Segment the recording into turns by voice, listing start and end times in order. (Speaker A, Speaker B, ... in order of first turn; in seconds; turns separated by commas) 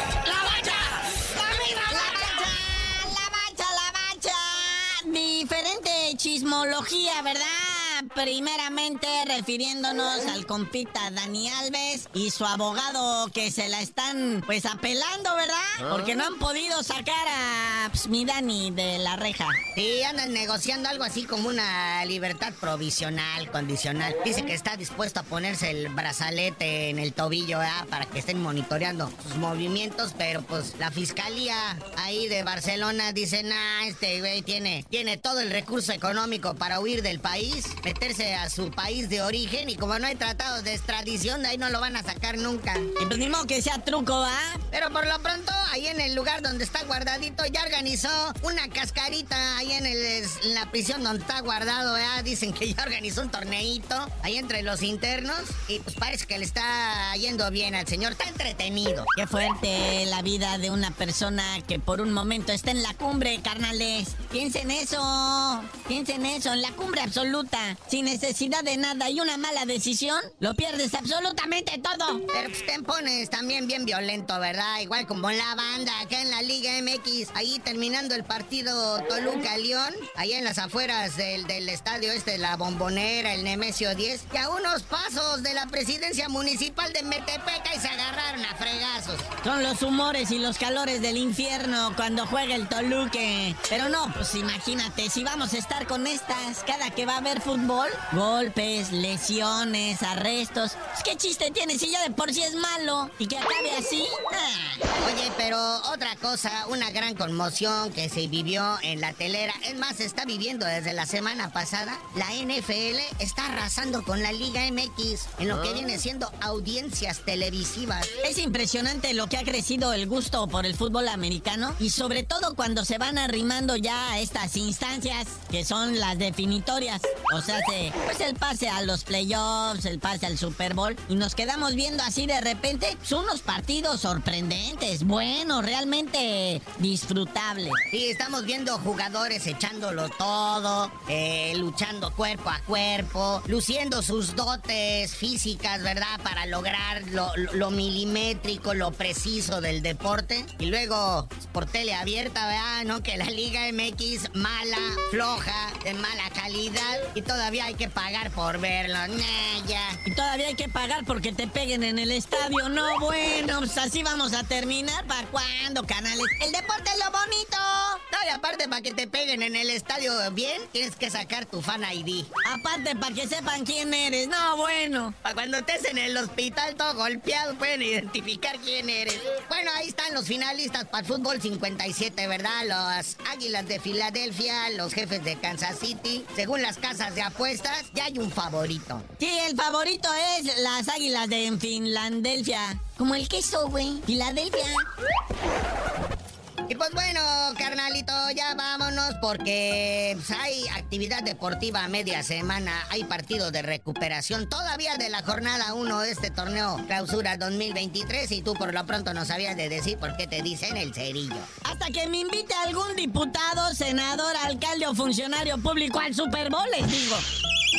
Speaker A: 0.2-19.6, Speaker B: 19.8-42.9, Speaker A: 43.0-44.6, Speaker B: 44.7-59.1, Speaker A: 59.2-72.2, Speaker B: 72.3-89.3, Speaker A: 89.4-104.8, Speaker B: 105.0-118.1, Speaker A: 118.2-137.8, Speaker B: 137.9-160.0, Speaker A: 160.1-168.0, Speaker B: 168.1-172.3, Speaker A: 172.4-175.2, Speaker B: 175.2-189.1, Speaker A: 189.2-194.9, Speaker B: 196.7-211.5, Speaker A: 211.6-217.2